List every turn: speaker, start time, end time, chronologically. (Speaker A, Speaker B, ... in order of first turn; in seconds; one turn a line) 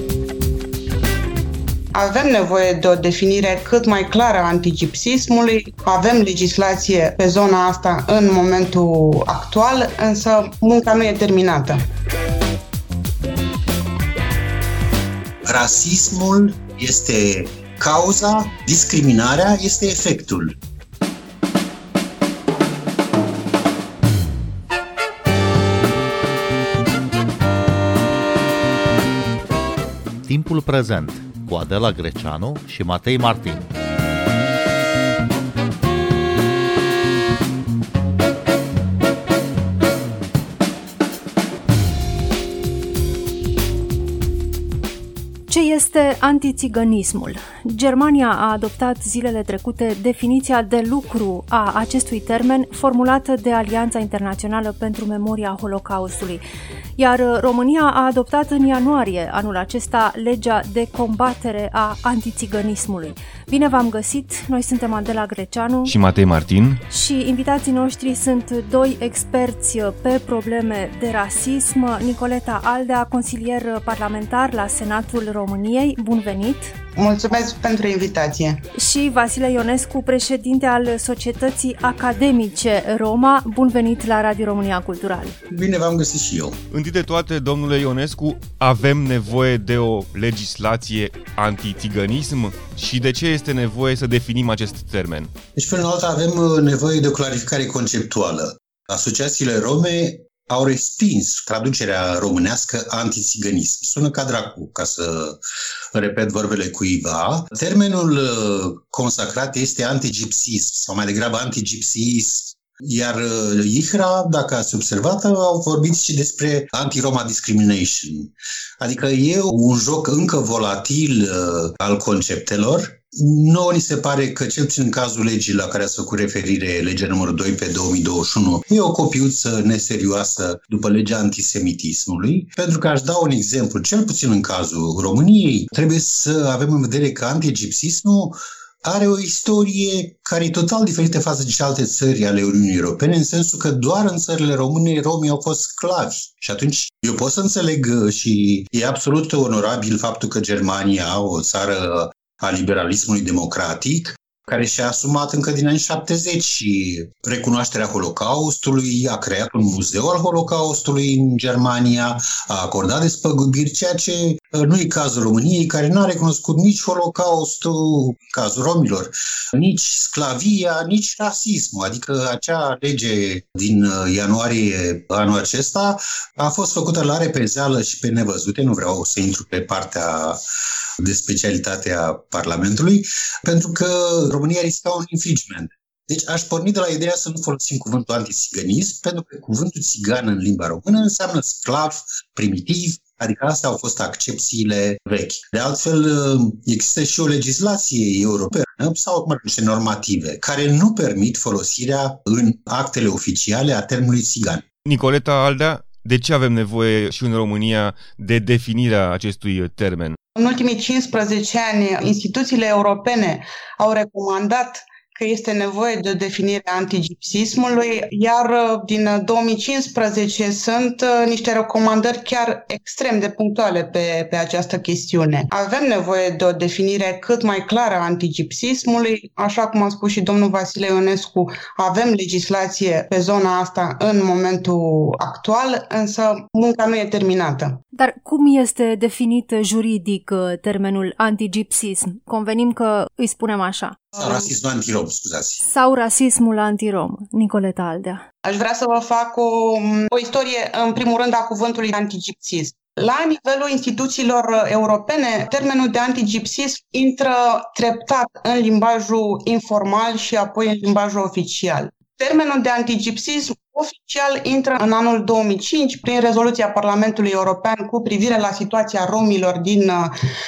Speaker A: 1.9-11.8
Speaker B: 15.5-20.6
Speaker C: 30.3-33.7
Speaker D: 45.5-56.4
Speaker D: 57.0-66.0
Speaker E: 65.8-66.8
Speaker D: 66.9-76.7
Speaker A: 77.0-78.6
Speaker D: 78.8-85.4
Speaker B: 85.5-86.6
Speaker E: 86.7-95.3
Speaker B: 95.5-105.4
Speaker B: 105.9-180.4
Speaker B: 181.0-204.6
Speaker E: 204.8-210.2
Speaker A: 210.4-237.8
Speaker D: 237.9-244.0
Speaker B: 244.2-245.7
Speaker D: 245.6-248.2
Speaker A: 248.4-270.1